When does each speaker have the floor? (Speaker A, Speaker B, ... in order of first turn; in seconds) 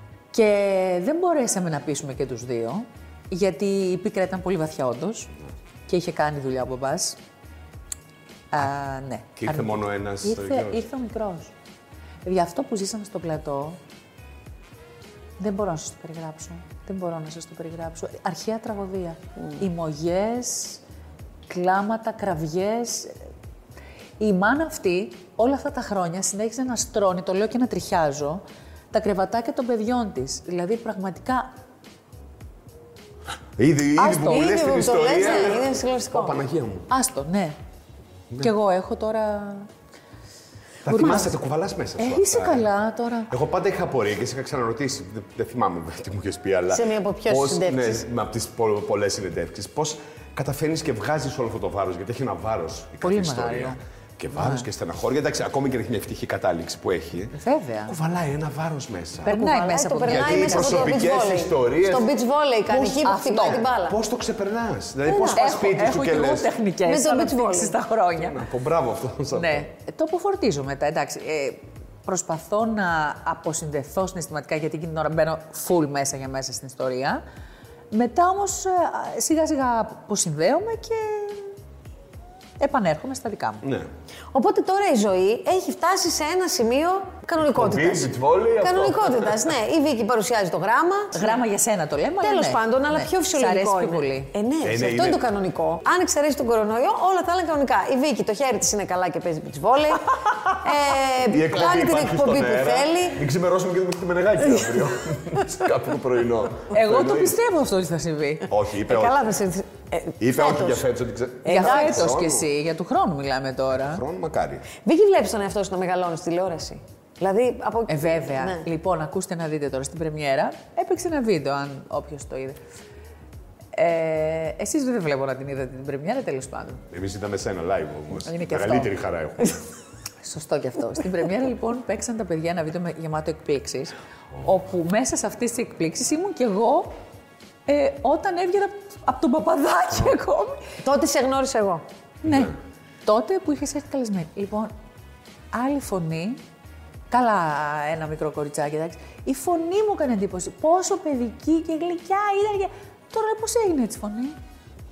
Speaker A: 0.3-5.3, 5.9-7.2, 8.5-11.5, 12.2-13.8, 15.4-20.8, 21.5-23.2, 24.2-31.5, 34.0-34.6, 36.9-37.6, 38.4-39.7, 40.9-41.4, 42.0-43.3, 53.0-53.8, 54.3-54.7, 57.3-57.9, 59.3-61.0, 62.7-63.7, 65.3-68.4, 69.3-77.2, 77.9-81.5, 82.6-83.6, 91.1-94.3, 106.7-108.5, 111.5-114.0, 117.9-122.6, 123.7-126.8, 128.2-128.9, 130.2-136.9, 137.7-140.6, 142.2-144.7, 145.5-146.4, 147.1-154.3
Speaker B: 9.4-10.8, 33.6-36.9, 40.9-42.7, 43.3-57.3, 57.9-59.4, 60.0-62.1, 63.4-66.5, 68.1-69.7, 87.4-89.5, 94.6-95.2, 101.2-107.4, 108.5-109.3, 110.2-112.5, 113.7-114.7, 126.9-129.6
Speaker C: 34.2-36.4, 46.7-48.1, 59.3-64.0, 65.1-65.5, 66.8-67.8, 84.3-91.4, 92.2-103.2, 108.9-110.8, 111.5-112.1, 114.8-118.7, 140.8-141.8